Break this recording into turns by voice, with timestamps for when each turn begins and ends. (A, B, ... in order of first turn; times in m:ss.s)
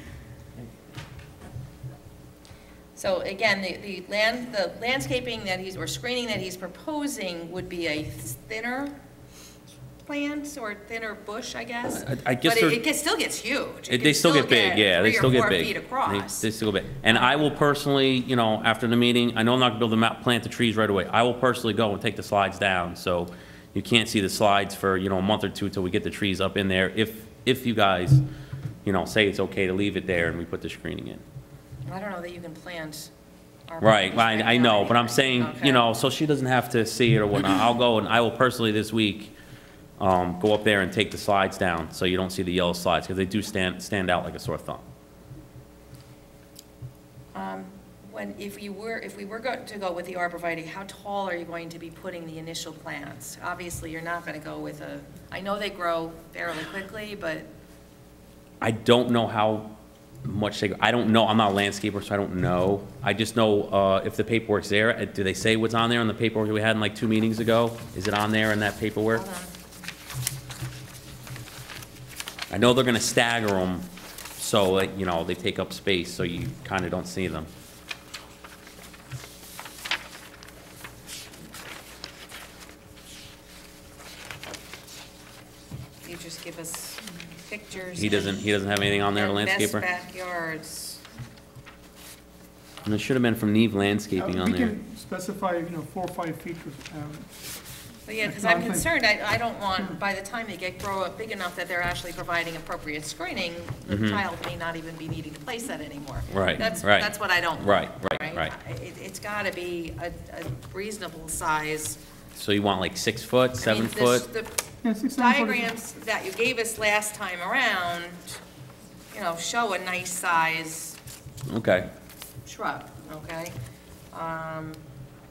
0:03.0-0:09.0 A
0:10.1-0:16.5 A
0:11.9-0:12.8 B
0:13.9-0:28.2 B
0:17.1-0:17.5 A
0:28.8-0:31.2 B
0:31.9-0:33.1 A
0:33.7-0:35.8 A
0:33.8-0:39.3 B
0:40.0-0:44.8 B
0:47.3-0:57.5 A
0:58.6-0:59.7 B
1:00.2-1:09.2 B
1:09.1-1:09.5 A
1:12.5-1:13.9 B
1:14.4-1:17.5 B
1:26.0-1:31.0 A
1:28.0-1:29.8 B
1:32.9-1:34.8 B
1:34.2-1:37.3 C
1:38.1-1:52.0 A
1:38.2-1:38.9 C
1:43.9-1:44.2 B
1:46.3-1:48.5 B
1:52.4-1:54.3 B
1:53.6-1:58.4 A
1:54.8-1:55.8 C
1:59.1-2:01.0 A
2:01.5-2:01.9 B
2:02.5-2:03.6 A
2:04.1-2:04.8 A